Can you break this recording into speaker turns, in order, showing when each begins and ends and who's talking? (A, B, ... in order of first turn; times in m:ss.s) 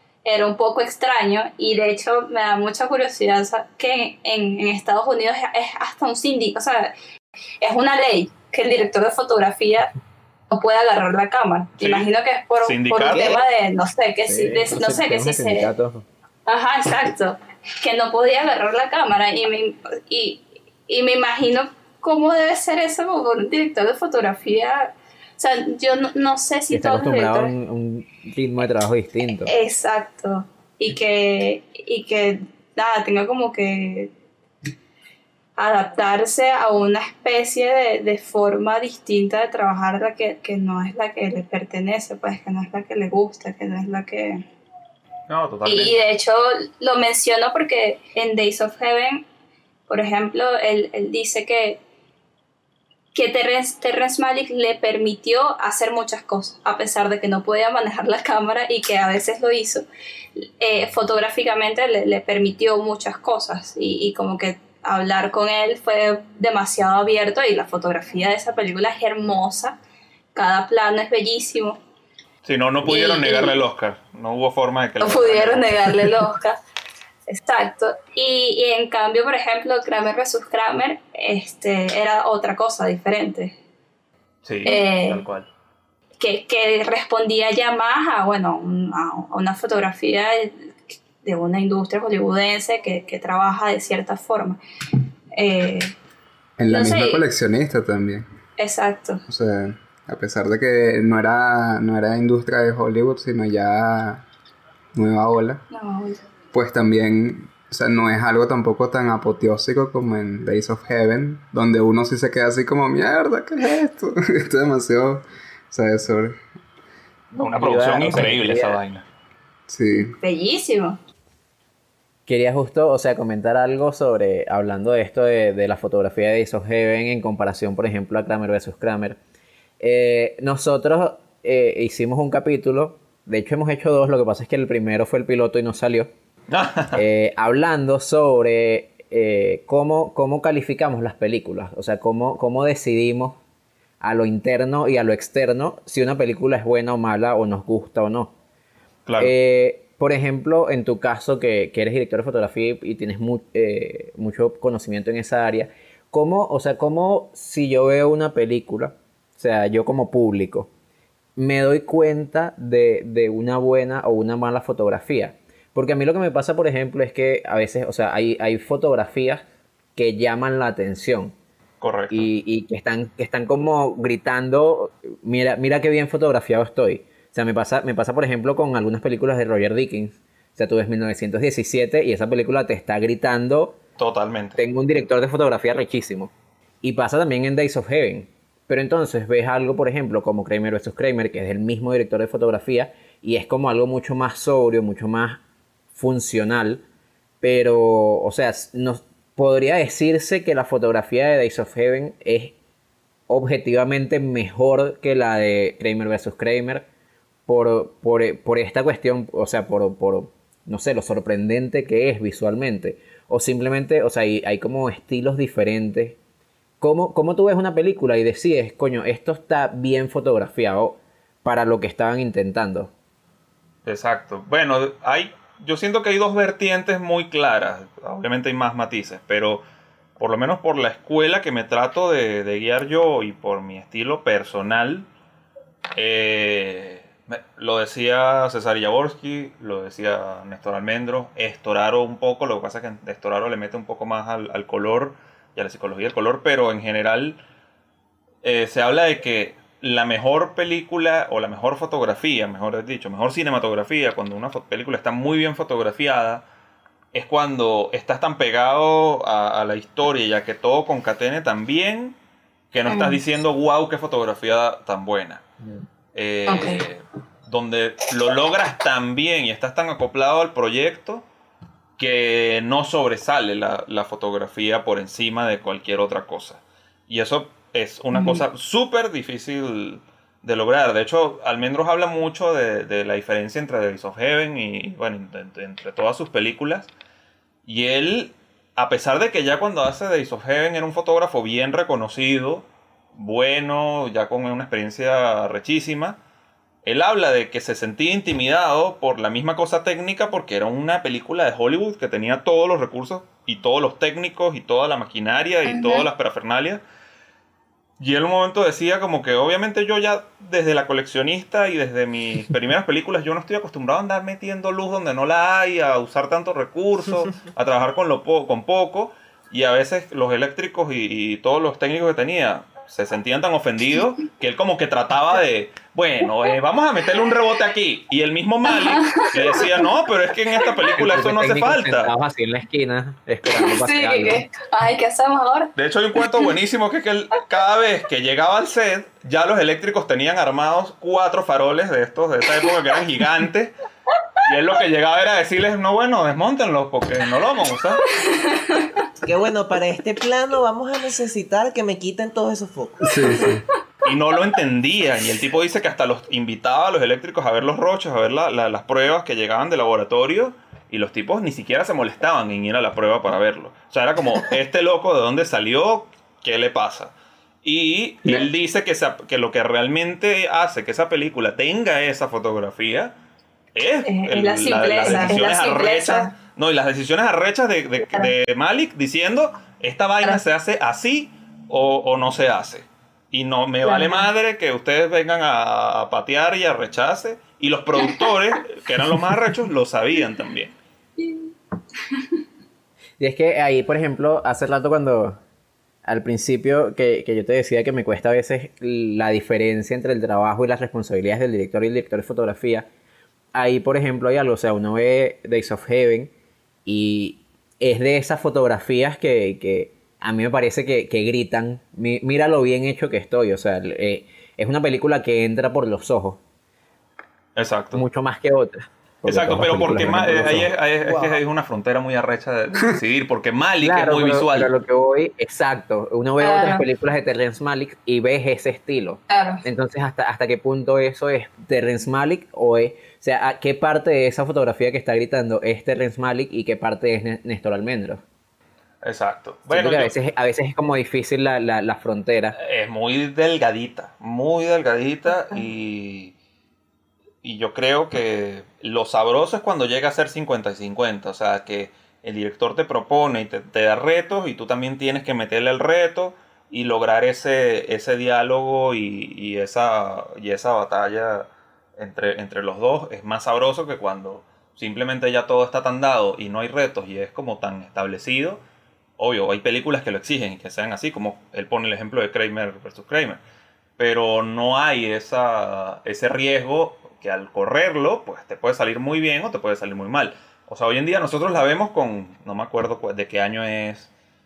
0:00.2-0:06.9 A
0:07.6-0:09.9 A
0:10.5-0:15.7 A
0:11.8-0:12.1 B
0:12.6-0:13.4 B
0:14.2-0:16.0 C
0:16.5-0:27.5 A
0:26.7-0:29.5 C
0:29.4-0:34.1 A
0:35.6-0:44.4 A
0:45.3-0:46.0 B
0:45.6-0:49.2 A
0:49.9-0:51.8 A
0:53.1-0:59.8 A
1:00.4-1:09.8 A
1:10.3-1:11.8 A
1:12.4-1:16.2 B
1:12.8-1:13.6 A
1:15.0-1:16.6 A
1:17.3-1:23.5 A
1:24.4-1:25.5 B
1:24.6-1:25.2 A
1:26.2-1:34.6 A
1:35.3-1:35.9 A
1:36.6-1:38.2 D
1:36.7-1:37.2 A
1:38.6-1:39.2 A
1:39.3-1:44.2 D
1:44.9-1:45.6 D
1:45.7-1:46.2 A
1:46.5-1:56.4 D
1:57.3-1:58.8 C
1:57.4-1:59.0 B
1:59.7-2:00.1 D
1:59.9-2:01.0 A
2:02.3-2:09.2 C
2:09.8-2:16.1 C
2:16.5-2:17.0 B
2:16.9-2:23.4 C
2:24.0-2:28.3 C
2:29.0-2:29.3 B
2:29.2-2:40.7 C
2:41.4-2:49.4 C
2:50.0-2:51.3 C
2:51.8-2:52.3 B
2:52.1-3:03.8 C
3:04.0-3:04.6 B
3:04.6-3:15.4 C
3:15.9-3:16.8 C
3:17.4-3:22.6 C
3:23.3-3:26.8 C
3:27.5-3:36.2 C
3:36.8-3:42.9 C
3:43.8-3:49.6 B
3:50.2-3:55.1 B
3:56.0-4:07.4 B
4:08.4-4:16.4 B
4:17.1-4:22.1 B
4:22.7-4:25.4 B
4:22.9-4:23.2 A
4:26.1-4:31.2 B
4:26.5-4:26.8 A
4:32.0-4:46.9 B
4:38.1-4:38.4 A
4:47.6-4:56.2 B
4:56.8-5:06.8 B
5:05.7-5:06.0 A
5:08.0-5:32.1 B
5:28.7-5:29.6 A
5:31.0-5:34.4 C
5:33.5-5:35.7 A
5:35.8-5:43.7 B
5:44.4-5:48.0 B
5:48.1-5:49.0 A
5:49.2-5:53.4 E
5:53.0-5:53.6 D
5:54.0-6:07.1 B
6:07.6-6:13.1 B
6:13.7-6:30.8 B
6:14.0-6:16.3 A
6:23.8-6:24.2 A
6:31.2-6:32.4 A
6:33.2-6:35.4 C
6:36.0-6:42.9 C
6:43.5-6:46.3 C
6:46.8-6:56.4 C
6:57.6-6:58.0 B
6:57.9-7:00.7 C
6:59.2-7:04.7 B
7:01.0-7:01.4 E
7:03.8-7:18.2 C
7:06.4-7:06.8 A
7:09.3-7:09.6 A
7:19.0-7:20.1 B
7:19.7-7:22.6 C
7:22.5-7:26.3 B
7:27.4-7:48.6 B
7:49.2-7:53.4 B
7:54.0-8:04.1 B